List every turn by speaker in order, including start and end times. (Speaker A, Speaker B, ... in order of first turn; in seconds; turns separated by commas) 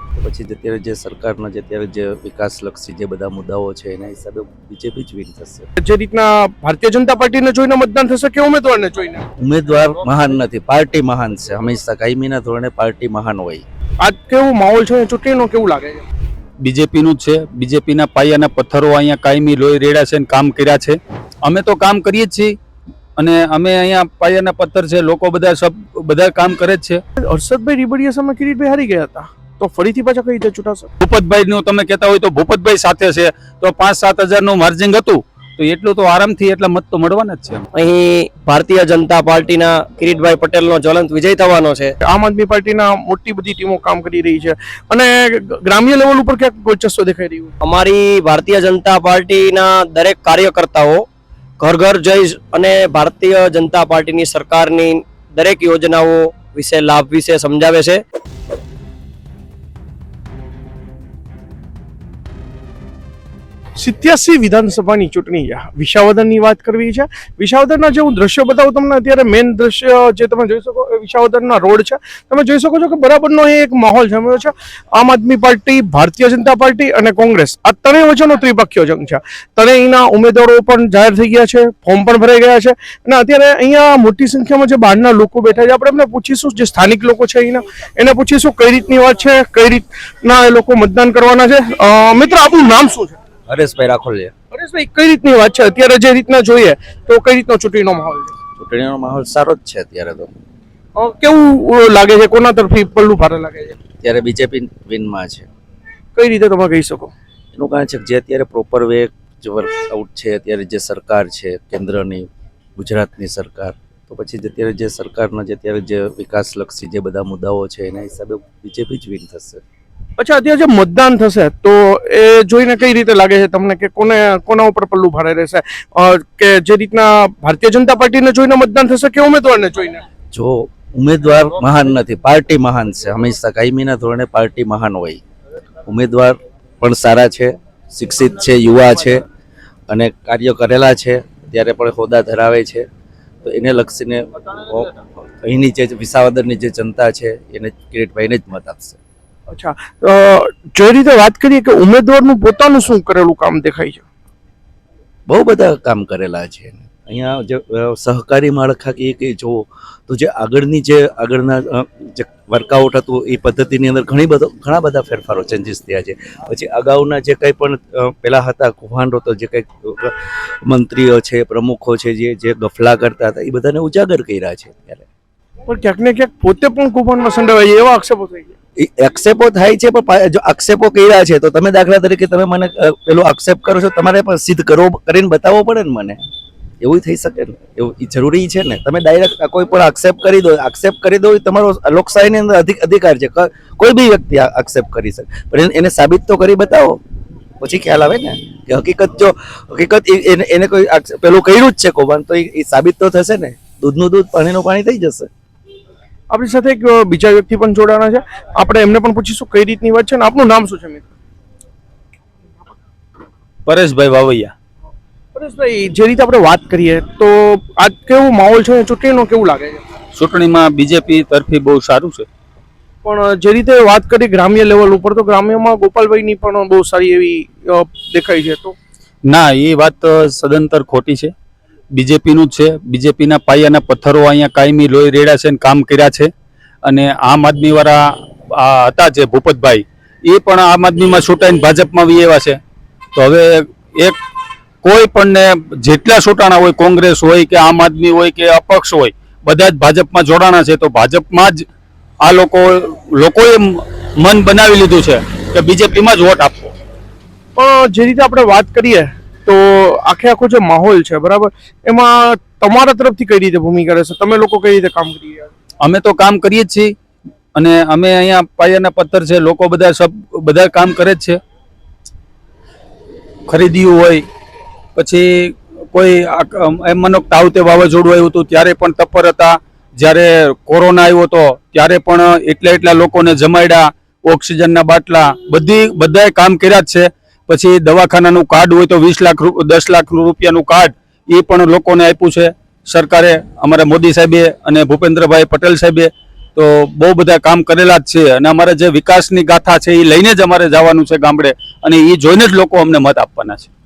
Speaker A: 0.1-5.7, Speaker B: 5.8-9.3, Speaker A: 9.4-13.6, Speaker B: 14.0-16.1, Speaker C: 16.6-22.5, Speaker C: 23.2-27.0, Speaker B: 27.2-30.9, Speaker C: 31.0-37.6, Speaker D: 37.8-42.0, Speaker B: 42.0-47.5, Speaker D: 47.6-51.0, Speaker D: 51.6-58.0, Speaker B: 63.8-93.2, Speaker A: 93.5-94.3, Speaker B: 94.5-98.3, Speaker A: 98.6-100.3, Speaker B: 101.0-103.8, Speaker A: 104.0-105.5, Speaker B: 106.2-107.1, Speaker A: 107.5-119.6, Speaker B: 120.2-130.0, Speaker A: 130.3-135.2, Speaker A: 135.9-139.2, Speaker A: 139.9-142.8, Speaker A: 143.4-149.0, Speaker B: 149.5-154.0, Speaker A: 155.3-175.1, Speaker B: 175.7-178.5, Speaker A: 178.8-186.2, Speaker A: 186.8-197.0, Speaker A: 197.6-205.3, Speaker B: 206.3-211.1, Speaker C: 213.7-214.5, Speaker B: 215.3-219.8, Speaker C: 220.2-222.3, Speaker B: 223.0-228.8, Speaker C: 229.3-231.3, Speaker C: 231.9-236.3, Speaker C: 236.8-238.0, Speaker C: 238.5-242.6, Speaker C: 243.2-244.2, Speaker C: 244.8-251.7, Speaker C: 252.2-256.7, Speaker B: 257.6-265.5, Speaker C: 265.8-266.9, Speaker C: 267.6-271.4, Speaker C: 273.5-274.2, Speaker C: 275.0-303.7